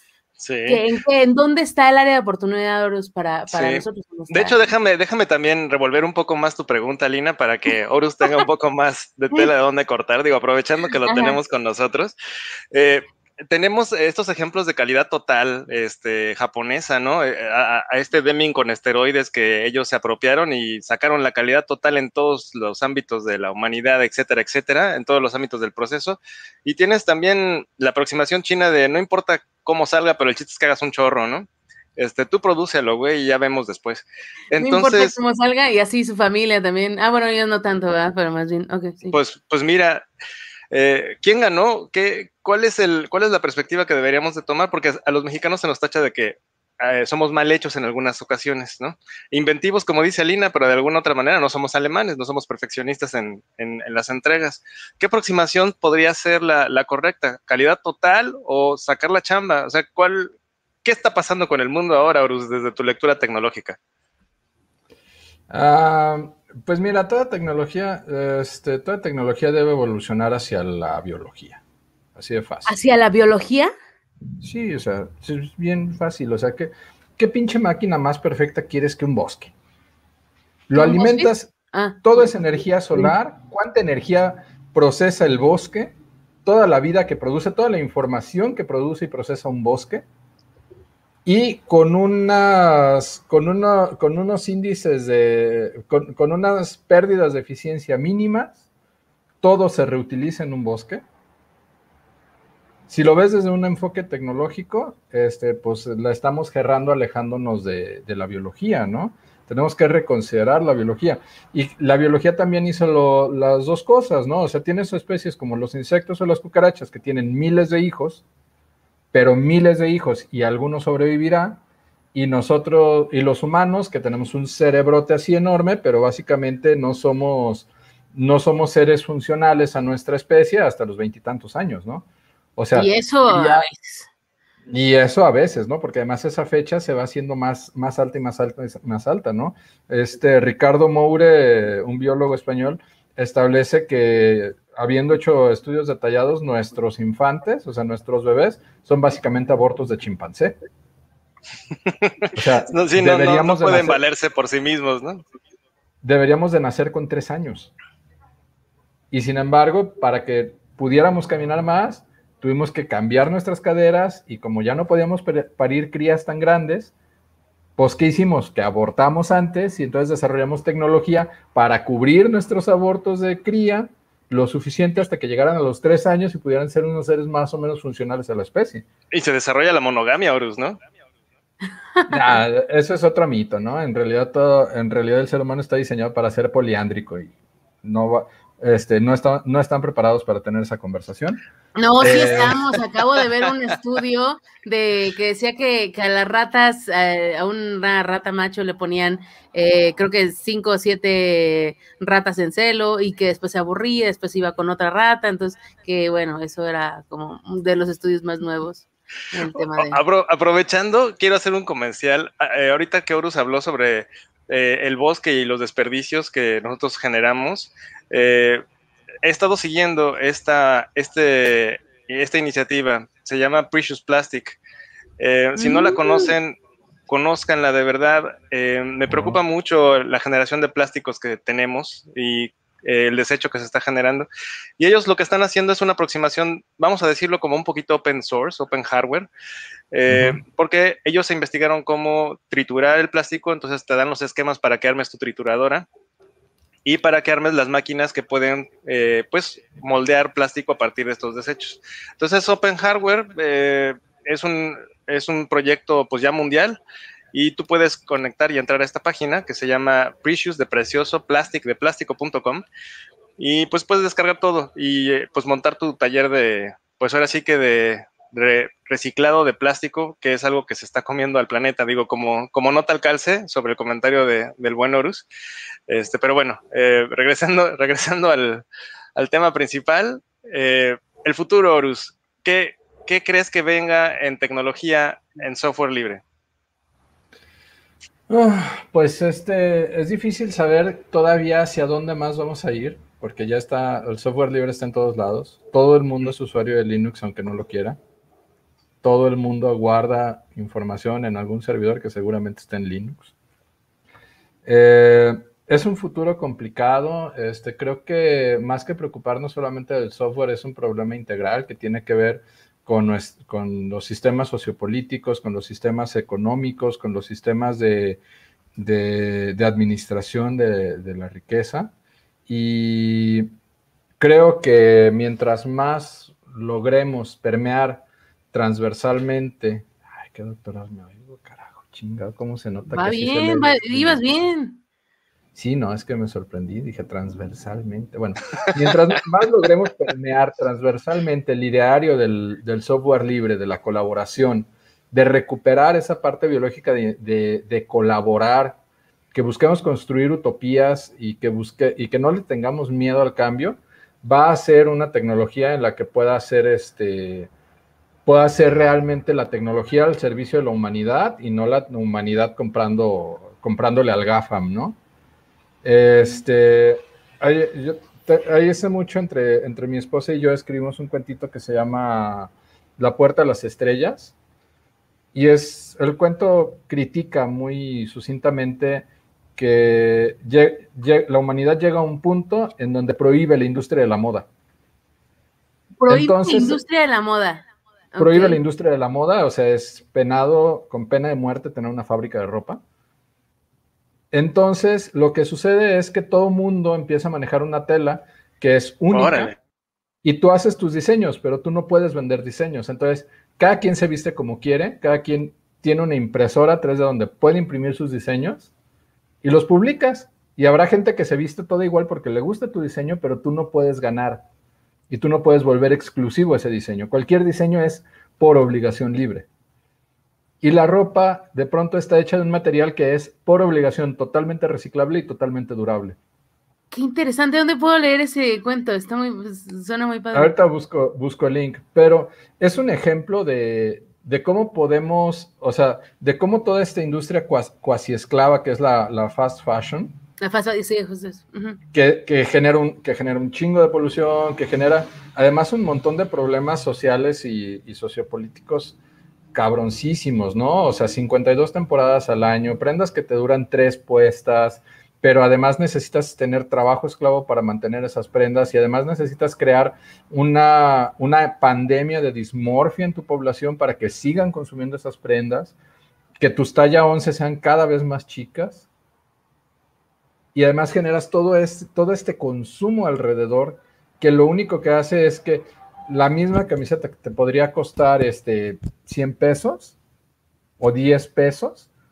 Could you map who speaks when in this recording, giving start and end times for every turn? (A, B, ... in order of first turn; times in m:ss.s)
0:00.4-0:00.8 A
0:00.7-0:04.6 B
0:03.5-0:12.1 A
0:11.1-0:11.4 B
0:12.7-0:35.2 A
0:34.6-0:39.2 B
0:39.1-0:40.1 A
0:40.7-1:00.3 A
1:00.8-1:03.8 A
1:05.5-1:11.6 C
1:12.1-1:12.8 C
1:12.7-1:13.7 B
1:14.4-1:19.5 C
1:20.7-1:30.0 C
1:20.7-1:22.3 B
1:31.2-1:38.6 C
1:39.4-1:41.0 C
1:42.9-1:58.2 C
1:59.1-2:01.6 C
2:02.1-2:13.6 C
2:12.8-2:14.1 B
2:14.7-2:30.6 C
2:31.9-2:35.2 A
2:32.4-2:34.0 C
2:36.0-2:37.7 C
2:39.1-2:46.9 C
2:47.8-2:58.8 C
2:59.1-3:00.8 A
3:02.0-3:02.3 B
3:02.1-3:11.4 C
3:11.8-3:30.0 B
3:12.0-3:12.8 C
3:29.6-3:38.6 A
3:39.2-3:44.6 A
3:45.2-3:46.6 A
3:45.6-3:46.4 B
3:47.1-3:54.3 A
3:49.1-3:49.4 C
3:54.8-3:59.3 A
3:59.9-4:05.9 A
4:00.1-4:00.4 C
4:06.8-4:16.8 A
4:17.3-4:22.6 A
4:23.4-4:35.2 A
4:35.9-4:38.6 A
4:39.2-4:46.2 A
4:48.3-4:58.0 C
4:59.0-5:03.3 C
5:04.6-5:18.2 C
5:18.8-5:21.9 C
5:22.5-5:23.5 C
5:24.2-5:34.2 C
5:32.9-5:34.8 B
5:35.6-5:48.8 C
5:49.3-5:57.5 C
5:58.3-6:05.0 C
6:05.8-6:14.3 C
6:15.3-6:24.5 C
6:26.0-6:28.6 B
6:26.1-6:26.8 C
6:28.2-6:32.8 C
6:34.3-6:39.5 C
6:39.1-6:39.5 A
6:40.2-6:48.7 C
6:49.4-6:54.4 C
6:55.1-6:59.5 C
7:00.6-7:06.2 C
7:06.9-7:10.6 B
7:10.3-7:20.2 C
7:20.4-7:21.8 B
7:21.9-7:29.0 C
7:29.5-7:45.8 C
7:46.4-7:48.9 C
7:50.5-8:00.0 C
8:00.8-8:01.9 C